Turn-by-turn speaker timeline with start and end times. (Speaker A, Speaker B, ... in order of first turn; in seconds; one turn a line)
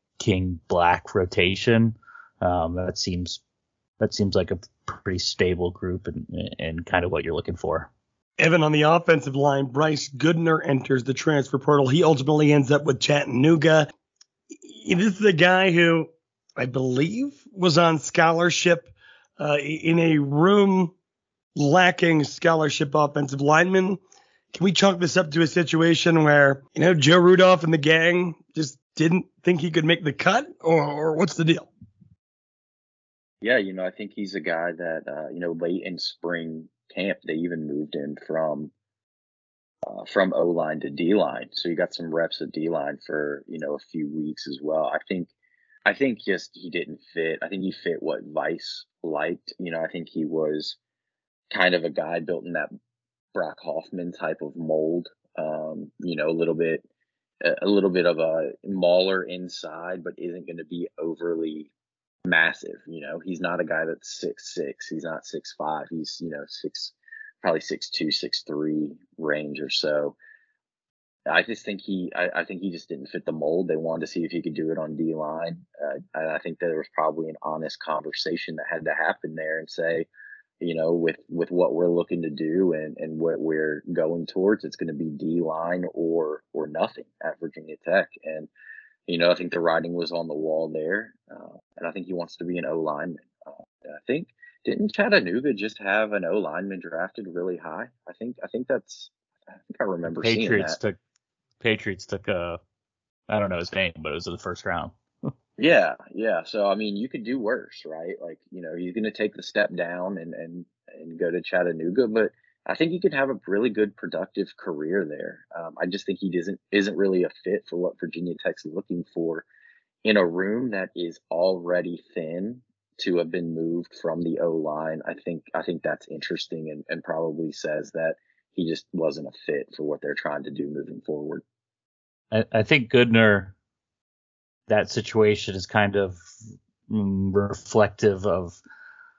Speaker A: 0.2-3.4
Speaker A: 4.0-7.9
Speaker B: 8.4-13.9
Speaker B: 14.6-20.9
Speaker B: 21.6-24.0
Speaker B: 24.5-31.7
Speaker C: 33.4-38.7
Speaker C: 39.9-45.3
Speaker C: 45.9-50.8
Speaker C: 51.5-52.7
Speaker C: 53.4-56.8
Speaker C: 57.4-61.7
Speaker C: 62.2-70.2
Speaker C: 71.3-80.1
Speaker C: 80.6-88.5
Speaker C: 89.1-99.1
Speaker C: 99.7-100.8
Speaker A: 100.1-101.0
Speaker A: 101.6-102.6
Speaker A: 103.3-105.3
Speaker C: 105.6-119.5
Speaker C: 120.0-131.4
Speaker A: 132.3-133.6
Speaker A: 134.7-136.2
Speaker A: 136.9-138.6